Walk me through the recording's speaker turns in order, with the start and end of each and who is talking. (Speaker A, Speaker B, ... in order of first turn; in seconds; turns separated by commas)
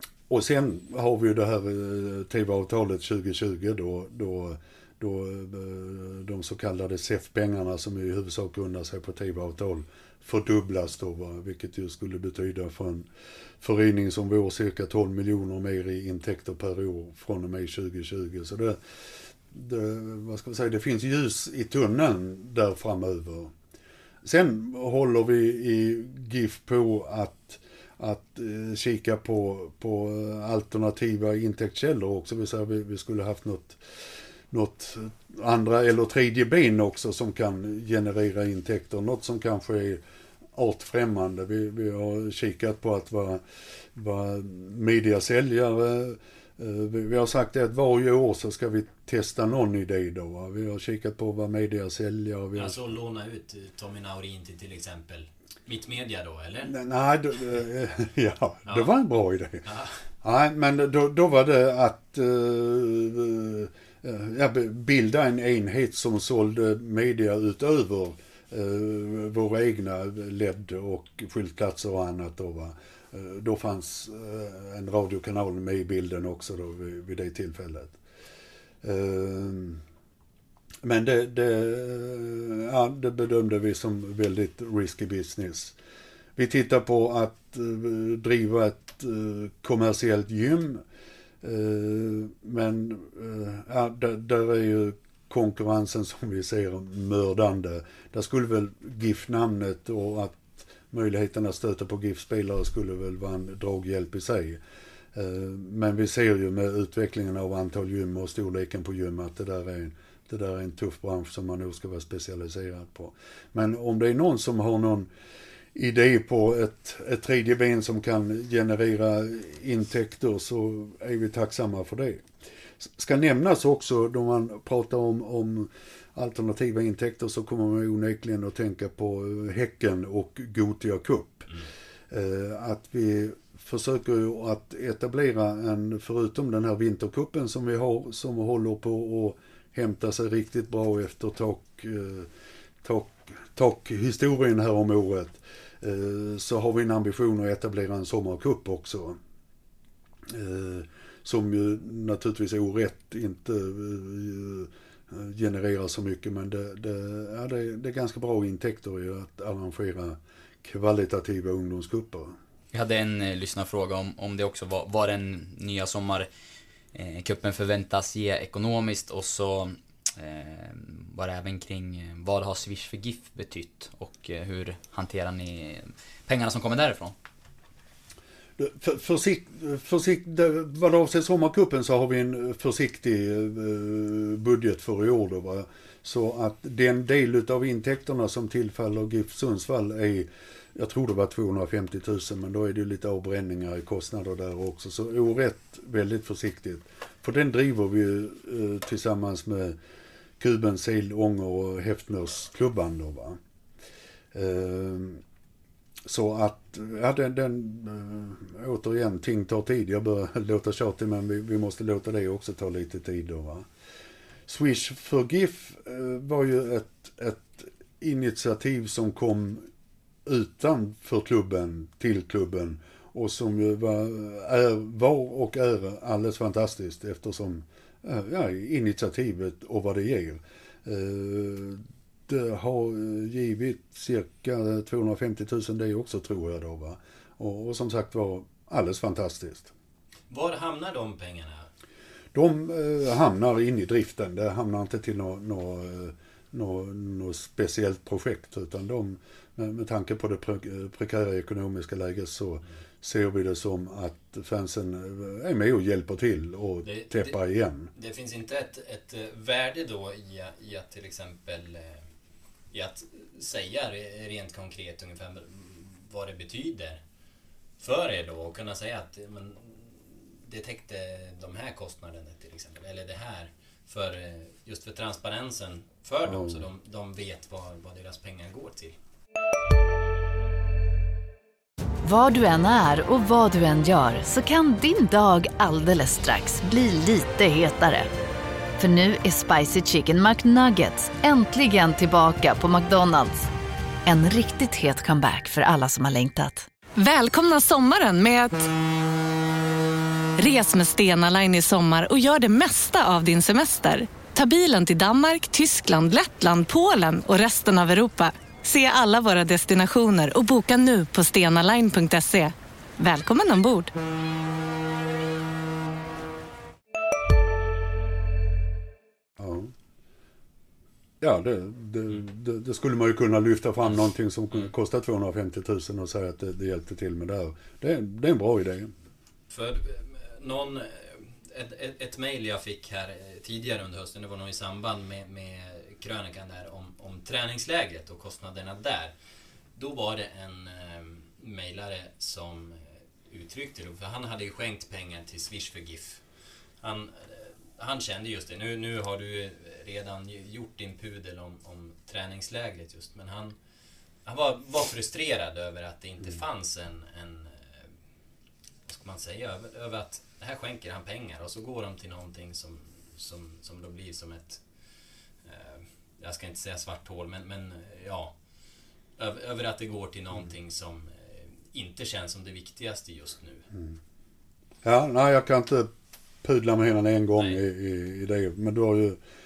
Speaker A: 0.3-13.1, Speaker A: 13.6-18.8, Speaker A: 19.4-23.5, Speaker A: 24.2-33.8, Speaker A: 34.5-40.0, Speaker A: 40.5-43.4, Speaker A: 43.9-52.8, Speaker B: 52.5-56.7, Speaker A: 56.6-59.6, Speaker B: 59.7-60.0, Speaker A: 60.2-78.0, Speaker A: 78.8-79.8, Speaker A: 80.8-85.8, Speaker A: 86.4-90.8, Speaker A: 91.4-104.6, Speaker A: 105.1-115.1, Speaker A: 115.7-122.3, Speaker A: 122.8-131.5, Speaker A: 132.1-142.3, Speaker A: 142.8-149.2, Speaker A: 150.3-162.4, Speaker C: 162.7-166.3, Speaker C: 166.9-177.2, Speaker A: 178.6-199.8, Speaker A: 200.4-203.4, Speaker A: 204.3-205.2, Speaker A: 206.1-213.7, Speaker A: 214.5-219.7, Speaker A: 220.2-239.7, Speaker B: 240.3-241.7, Speaker A: 242.3-257.9, Speaker B: 256.8-257.4, Speaker B: 257.9-262.1, Speaker B: 262.7-267.0, Speaker B: 267.8-279.0, Speaker A: 276.2-276.7, Speaker D: 282.0-288.1, Speaker D: 288.8-293.5, Speaker D: 294.1-296.7, Speaker E: 297.0-298.7, Speaker E: 300.4-313.9, Speaker A: 319.4-319.7, Speaker A: 321.2-328.9, Speaker B: 329.5-339.1, Speaker B: 339.8-346.2, Speaker B: 346.8-353.6, Speaker B: 354.2-357.9, Speaker B: 358.9-364.6, Speaker B: 365.4-368.4, Speaker B: 369.2-373.6, Speaker A: 373.7-374.0, Speaker A: 374.8-375.9, Speaker A: 376.4-379.2